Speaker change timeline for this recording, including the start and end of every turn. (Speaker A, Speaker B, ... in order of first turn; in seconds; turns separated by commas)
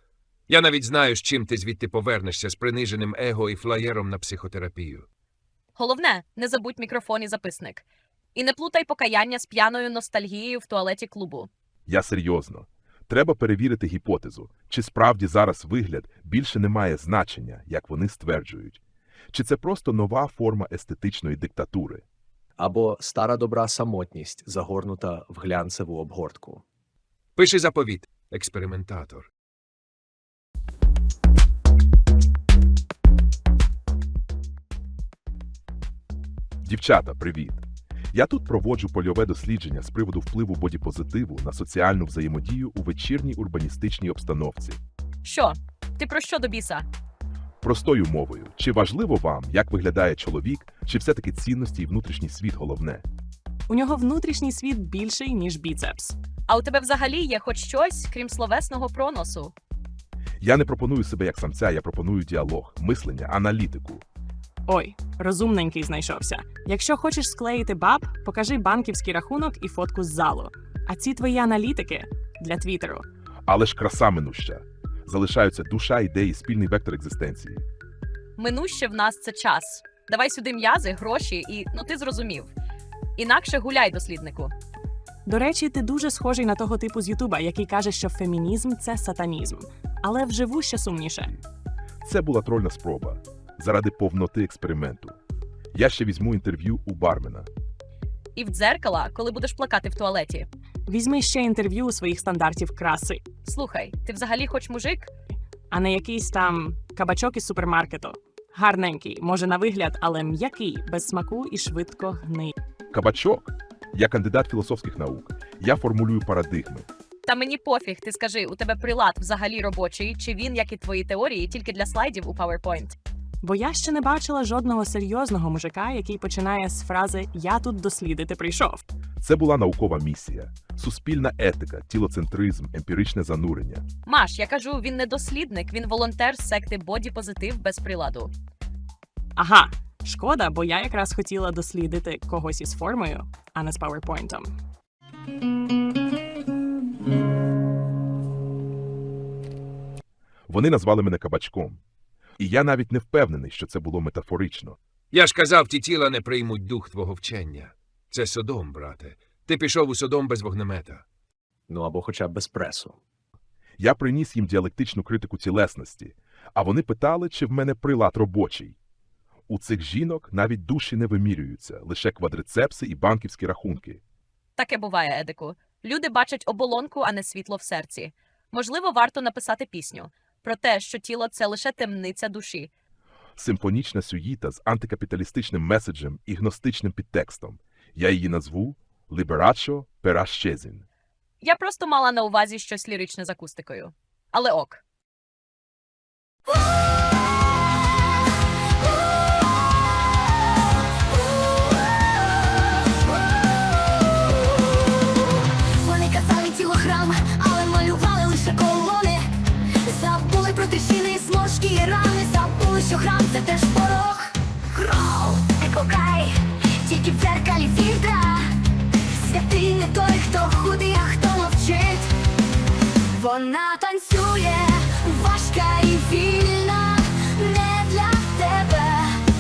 Speaker A: 0.5-5.1, Speaker B: 5.8-7.8, Speaker B: 8.3-11.5, Speaker C: 11.9-18.8, Speaker C: 19.3-22.0, Speaker D: 22.6-26.6, Speaker A: 27.4-29.3, Speaker C: 36.6-44.8, Speaker B: 45.2-46.9, Speaker C: 47.6-53.0, Speaker E: 53.7-56.1, Speaker B: 56.5-59.5, Speaker C: 60.4-64.0, Speaker E: 64.7-73.0, Speaker C: 73.5-77.6, Speaker B: 78.4-82.5, Speaker B: 83.2-84.5, Speaker E: 85.3-91.4, Speaker C: 92.0-95.2, Speaker C: 95.7-97.5, Speaker B: 98.4-100.5, Speaker E: 100.9-103.2, Speaker B: 103.5-105.1, Speaker E: 105.7-112.5, Speaker C: 112.9-116.9, Speaker B: 117.3-123.0, Speaker E: 123.4-128.8, Speaker C: 129.2-133.8, Speaker B: 134.1-138.3, Speaker E: 139.4-144.5, Speaker C: 150.5-151.8, Speaker C: 152.4-154.8, Speaker A: 155.1-161.0, Speaker D: 161.7-163.0, Speaker C: 163.8-168.8, Speaker C: 169.5-174.0, Speaker B: 174.6-182.7, Speaker C: 183.4-190.8, Speaker B: 191.4-194.8, Speaker F: 205.7-218.5, Speaker F: 219.1-222.1, Speaker F: 223.1-229.2